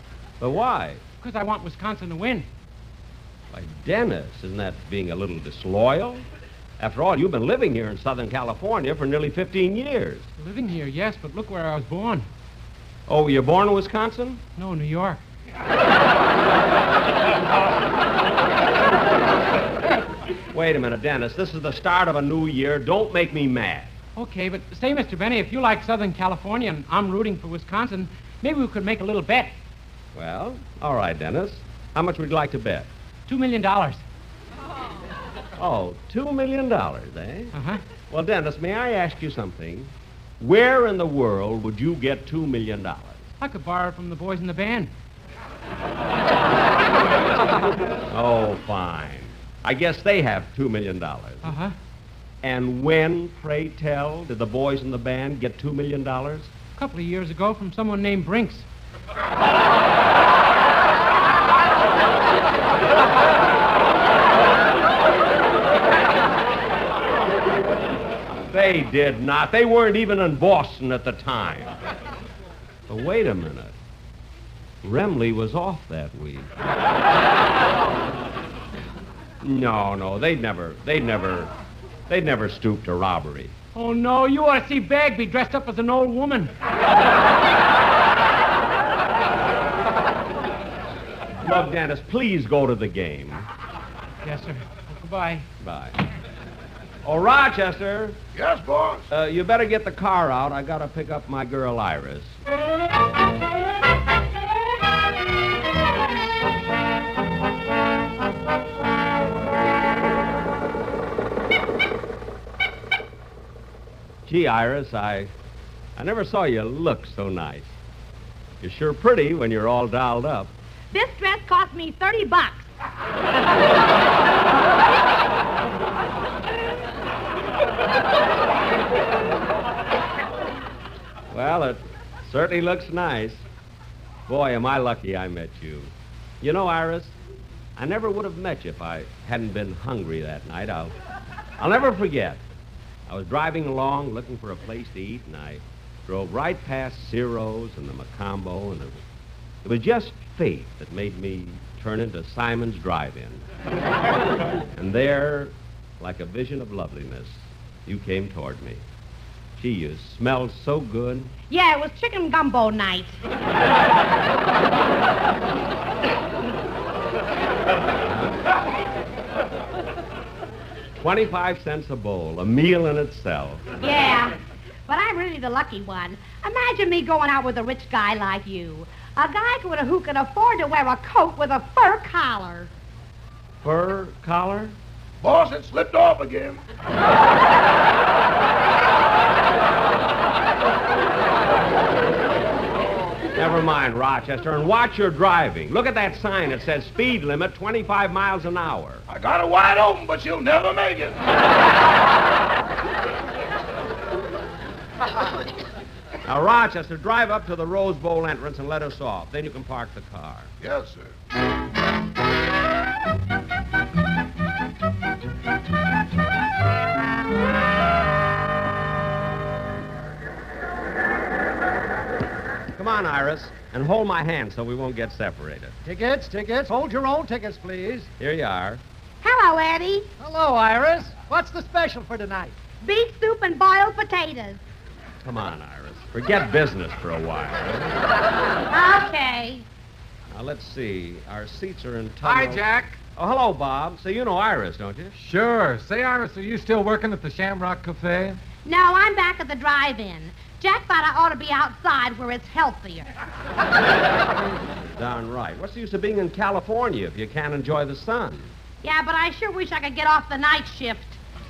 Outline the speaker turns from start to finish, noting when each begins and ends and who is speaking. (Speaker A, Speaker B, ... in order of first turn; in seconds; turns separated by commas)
Speaker A: 0.4-1.0, Speaker B: 1.2-2.5, Speaker A: 3.5-6.2, Speaker A: 6.8-10.3, Speaker B: 10.4-12.3, Speaker A: 13.1-14.4, Speaker B: 14.6-15.2, Speaker A: 20.5-23.9, Speaker B: 24.2-29.6, Speaker A: 30.1-32.9, Speaker B: 33.3-34.0, Speaker A: 35.6-37.5, Speaker B: 37.5-37.8, Speaker A: 38.1-43.2, Speaker B: 43.4-44.9, Speaker A: 48.1-51.5, Speaker B: 51.4-51.8, Speaker A: 52.4-56.5, Speaker B: 56.8-58.7, Speaker A: 68.5-71.8, Speaker A: 72.9-73.8, Speaker A: 74.8-76.5, Speaker A: 79.4-81.5, Speaker A: 82.1-83.5, Speaker B: 83.7-86.5, Speaker A: 91.4-93.5, Speaker B: 94.2-95.5, Speaker A: 95.6-96.0, Speaker A: 97.0-98.2, Speaker C: 98.3-99.1, Speaker A: 99.1-102.3, Speaker A: 114.3-115.3, Speaker A: 116.0-117.8, Speaker A: 118.6-120.5, Speaker D: 120.9-122.7, Speaker A: 131.3-133.4, Speaker A: 134.3-137.2, Speaker A: 137.8-140.9, Speaker A: 141.6-142.4, Speaker A: 143.1-149.0, Speaker A: 149.6-153.4, Speaker A: 154.7-158.8, Speaker A: 159.6-161.3, Speaker D: 161.5-163.2, Speaker A: 171.0-173.8, Speaker D: 173.8-182.7, Speaker A: 183.6-184.8, Speaker C: 185.2-186.6, Speaker A: 193.4-199.1, Speaker C: 199.1-201.2, Speaker A: 206.2-210.5, Speaker C: 210.6-211.1, Speaker A: 222.8-225.8, Speaker E: 225.8-228.1, Speaker A: 228.2-228.8, Speaker D: 229.2-230.1, Speaker E: 230.2-232.6, Speaker D: 232.8-234.6, Speaker A: 235.2-237.9, Speaker D: 238.7-239.7, Speaker A: 240.3-245.2, Speaker F: 242.2-243.0, Speaker F: 245.2-248.4, Speaker D: 248.7-253.1, Speaker A: 255.0-258.5, Speaker D: 258.8-261.2